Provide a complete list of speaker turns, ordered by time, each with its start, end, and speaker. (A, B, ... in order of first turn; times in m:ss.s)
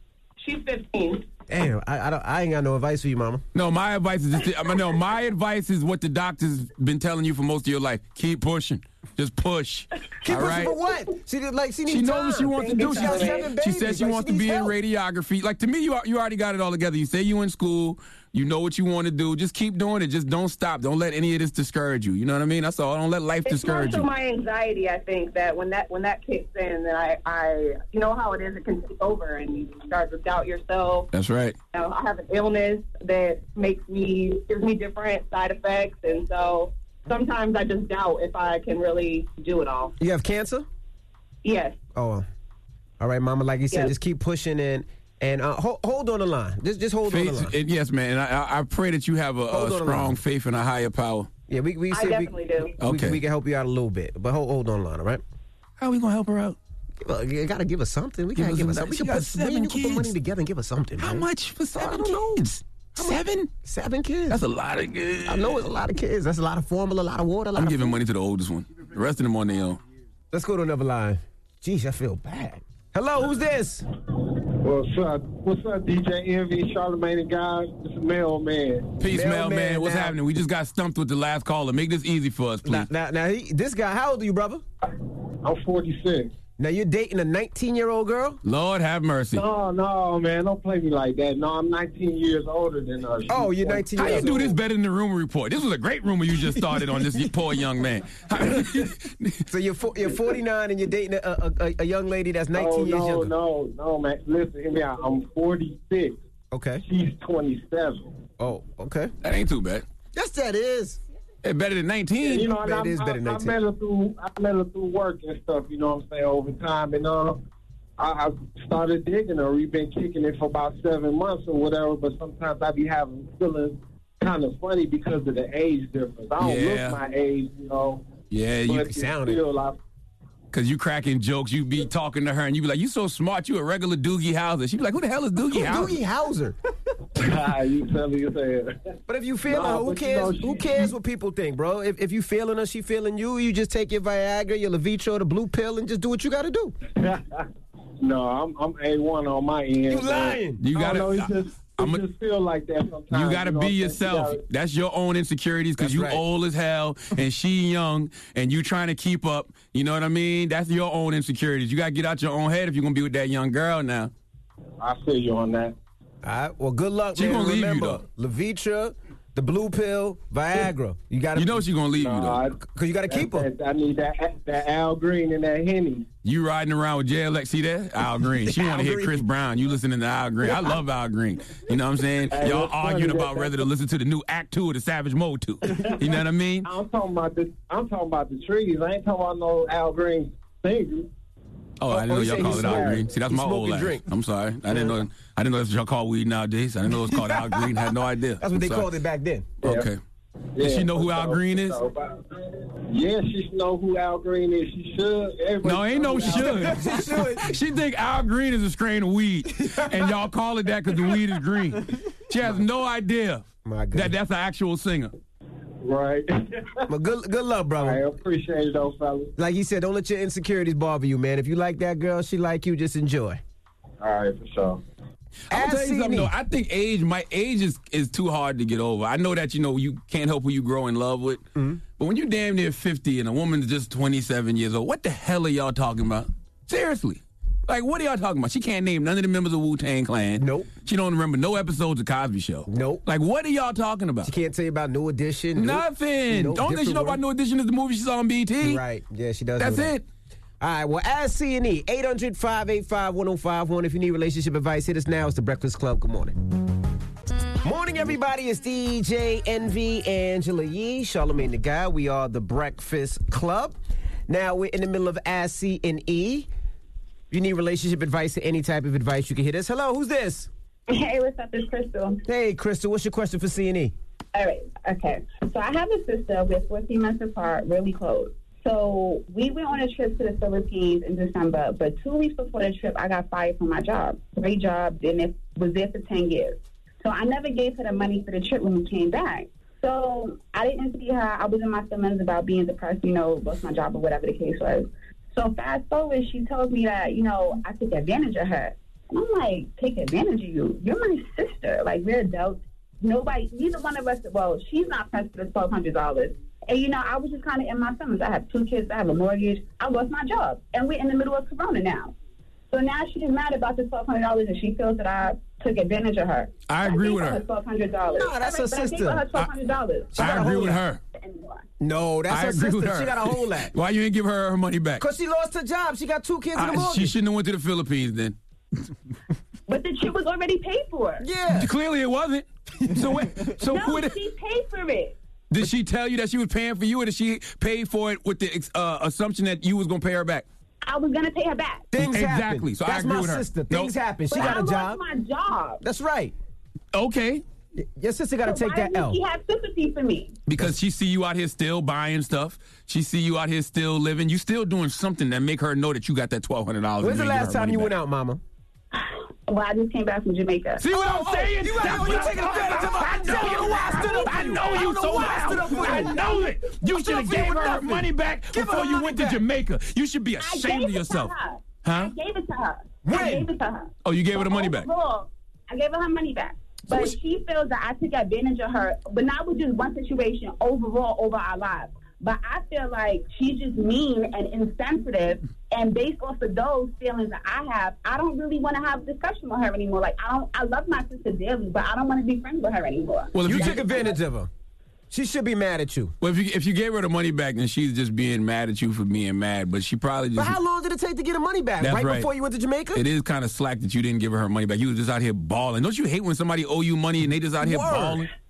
0:00.4-0:01.2 A
0:01.5-0:03.4 B
0:03.5-0:10.8 C
0:10.2-0:14.7 B
0:11.9-0:24.1 C
0:12.6-0:13.5 A
0:23.4-0:31.1 A
0:31.1-0:31.6 C
0:31.7-0:39.9 A
0:40.0-0:40.6 B
0:41.4-0:41.8 A
0:41.9-0:42.2 B
0:43.0-0:47.5 B
0:47.1-0:51.3 C
0:49.5-0:50.2 B
0:51.5-0:55.2 B
0:51.9-0:52.8 A
0:52.8-0:53.2 C
0:55.8-0:56.6 C
0:57.0-1:01.2 B
0:58.4-1:00.1 C
1:01.0-1:03.5 C
1:01.8-1:02.4 B
1:03.0-1:04.4 B
1:04.3-1:05.7 C
1:05.2-1:08.0 B
1:07.6-1:09.8 C
1:10.3-1:13.8 B
1:14.6-1:18.9 D
1:19.0-1:22.9 C
1:19.0-1:20.2 B
1:22.6-1:24.6 B
1:25.4-1:26.3 D
1:26.6-1:28.4 B
1:28.4-1:29.4 C
1:29.3-1:34.2 D
1:33.3-1:34.6 B
1:34.0-1:39.4 C
1:36.6-1:37.2 B
1:38.4-1:38.7 B
1:39.5-1:43.3 B
1:42.5-1:46.2 D
1:46.5-1:46.8 B
1:46.8-1:48.1 D
1:48.4-1:49.1 B
1:49.2-1:49.8 C
1:50.1-1:51.0 B
1:51.4-1:52.5 C
1:52.2-1:57.4 D
1:52.5-1:53.5 B
1:58.0-2:08.0 D
2:06.4-2:07.0 C
2:08.3-2:08.9 C
2:08.7-2:09.4 B
2:08.7-2:09.8 D
2:10.5-2:16.0 C
2:15.5-2:16.6 B
2:17.2-2:18.7 D
2:19.1-2:26.7 B
2:19.4-2:20.9 D
2:27.0-2:27.4 D
2:28.0-2:34.4 D
2:29.9-2:30.6 B
2:30.6-2:32.0 C
2:33.1-2:44.1 C
2:35.8-2:36.2 B
2:44.8-2:45.7 D
2:46.2-2:51.6 B
2:47.2-2:48.0 C
2:51.4-2:52.4 C
2:52.0-2:56.0 D
2:52.6-2:53.4 B
2:56.2-3:06.7 C
2:58.4-2:59.2 B
3:02.3-3:03.6 D
3:06.6-3:11.1 D
3:11.8-3:18.9 C
3:11.9-3:14.1 B
3:12.2-3:13.0 D
3:14.7-3:15.0 B
3:17.1-3:17.8 B
3:18.4-3:19.6 B
3:19.6-3:20.0 C
3:20.6-3:22.2 D
3:20.6-3:21.8 C
3:22.9-3:26.7 D
3:25.6-3:35.1 C
3:26.2-3:27.5 B
3:29.6-3:30.0 B
3:33.6-3:34.1 B
3:35.8-3:36.6 D
3:36.9-3:38.0 B
3:37.8-3:39.3 D
3:39.4-3:43.4 B
3:44.0-3:44.8 D
3:45.5-3:46.3 B
3:45.5-3:51.4 C
3:51.6-3:51.8 B
3:52.0-4:04.3 C
4:00.4-4:00.7 B
4:02.7-4:03.0 B
4:04.2-4:07.2 B
4:05.6-4:08.8 C
4:08.6-4:09.9 B
4:09.6-4:10.0 C
4:10.6-4:16.4 B
4:17.6-4:23.8 B
4:24.3-4:26.5 B
4:27.3-4:30.5 B
4:30.9-4:32.2 E
4:32.3-4:33.9 B
4:34.3-5:12.1 E
5:12.7-5:20.3 E
5:16.7-5:17.4 C
5:18.1-5:19.2 B
5:20.1-5:20.8 B
5:20.2-5:21.0 C
5:21.1-5:21.6 E
5:21.8-5:23.7 B
5:22.3-5:25.0 C
5:25.0-5:27.1 B
5:26.5-5:28.4 C
5:29.7-5:31.2 E
5:31.2-5:31.7 B
5:31.5-5:34.2 C
5:33.7-5:35.1 E
5:35.5-5:40.4 C
5:40.8-5:41.9 E
5:41.9-5:45.0 B
5:42.0-5:43.9 C
5:44.3-5:45.8 E
5:45.8-5:46.3 B
5:46.9-5:47.4 C
5:47.8-5:49.2 B
5:48.4-5:50.4 E
5:50.5-5:57.9 C
5:57.0-5:58.4 B
5:58.9-6:00.8 E
6:00.8-6:11.3 C
6:00.9-6:09.4 B
6:03.3-6:07.6 E
6:10.4-6:33.4 E
6:11.8-6:12.1 C
6:13.0-6:13.5 B
6:14.0-6:14.9 C
6:33.3-6:34.0 C
6:33.4-6:34.5 B
6:35.1-6:36.1 B
6:36.2-6:40.6 C
6:40.4-6:43.0 B
6:41.8-6:42.3 C
6:42.9-6:48.3 C
6:47.6-6:48.3 B